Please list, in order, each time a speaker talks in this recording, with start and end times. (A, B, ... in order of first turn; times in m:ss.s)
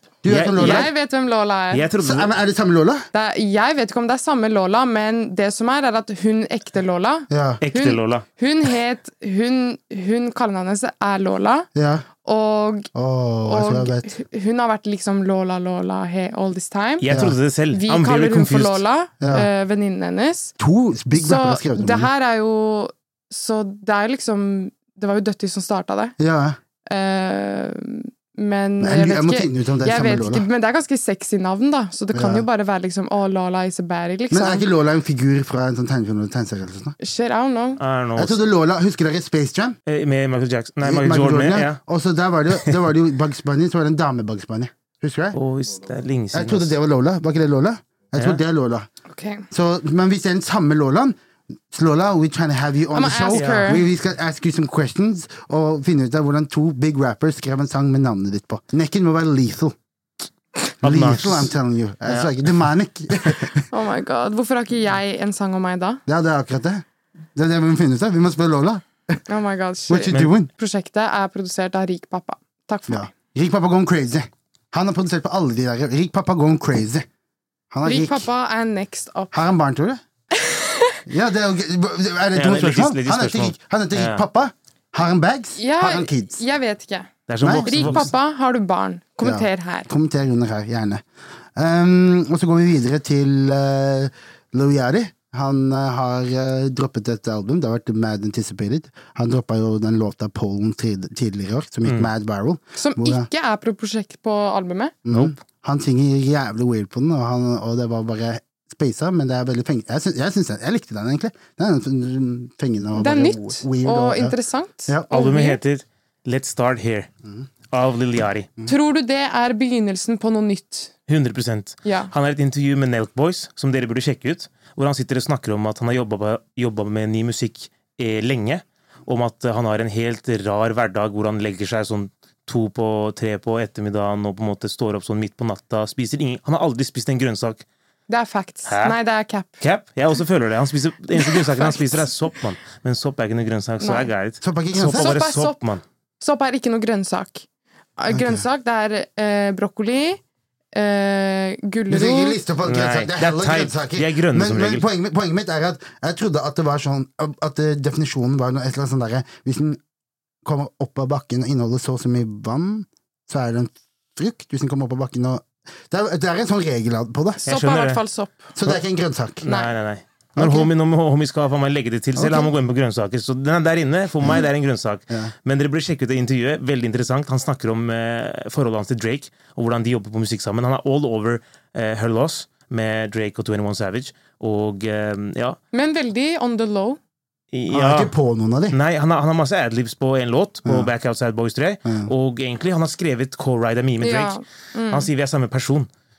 0:00.2-0:00.9 A
0:00.3-0:00.9 B
0:00.6-0:01.9 C
0:01.7-0:02.3 B
0:02.0-0:03.1 A
0:03.1-0:11.7 C
0:07.3-0:07.6 A
0:07.6-0:08.2 B
0:11.7-0:12.0 A
0:12.2-0:12.9 C
0:12.9-0:14.1 A
0:13.4-0:17.1 C
0:17.0-0:18.8 B
0:17.1-0:17.4 A
0:17.7-0:20.6 C
0:19.2-0:19.5 A
0:20.6-0:22.1 A
0:21.1-0:26.2 C
0:26.2-0:26.6 A
0:26.9-0:34.7 C
0:28.8-0:30.4 A
0:32.1-0:32.4 A
0:34.3-0:37.0 A
0:37.0-0:37.8 C
0:37.8-0:38.4 B
0:38.2-0:39.8 A
0:39.9-0:41.8 B
0:40.8-0:45.4 A
0:45.3-0:46.7 B
0:46.3-0:48.9 A
0:49.1-0:49.4 C
0:49.5-0:51.1 A
0:51.7-0:59.7 A
0:52.9-0:53.8 C
0:53.3-0:53.8 B
1:00.8-1:01.5 B
1:00.8-1:03.7 A
1:02.1-1:02.6 B
1:03.2-1:03.5 B
1:03.7-1:06.0 C
1:06.1-1:06.8 A
1:07.4-1:09.2 A
1:09.3-1:13.1 C
1:09.9-1:10.5 A
1:12.9-1:17.1 A
1:17.7-1:18.3 A
1:17.8-1:19.4 C
1:19.3-1:20.0 A
1:20.4-1:21.0 C
1:21.1-1:26.4 A
1:22.3-1:24.2 B
1:25.6-1:27.1 C
1:27.3-1:28.1 B
1:27.4-1:28.1 A
1:27.7-1:29.9 C
1:29.2-1:31.0 A
1:31.6-1:43.3 A
1:41.8-1:42.1 B
1:42.8-1:45.0 C
1:45.1-1:54.4 A
1:53.0-1:55.6 C
1:54.9-1:55.1 A
1:55.1-1:57.1 B
1:57.7-1:58.5 B
1:58.7-2:00.9 C
2:01.1-2:17.6 B
2:01.8-2:02.1 C
2:18.1-2:19.6 C
2:18.7-2:19.0 B
2:19.6-2:25.8 B
2:21.1-2:22.1 C
2:23.8-2:24.1 C
2:24.4-2:25.2 A
2:24.9-2:25.6 C
2:26.2-2:27.4 C
2:28.0-2:30.2 C
2:28.1-2:28.4 A
2:30.7-2:32.4 C
2:31.9-2:39.8 A
2:32.6-2:34.9 B
2:40.4-2:47.4 A
2:47.4-2:48.5 C
2:47.5-2:48.0 B
2:48.6-2:49.4 A
2:49.4-3:05.6 B
2:49.4-2:49.7 C
2:50.4-2:50.7 A
2:52.2-2:52.5 A
3:05.7-3:07.0 C
3:07.5-3:08.1 B
3:07.7-3:08.8 A
3:08.7-3:14.4 B
3:10.6-3:10.9 A
3:11.9-3:12.1 A
3:14.0-3:15.1 C
3:14.9-3:15.9 B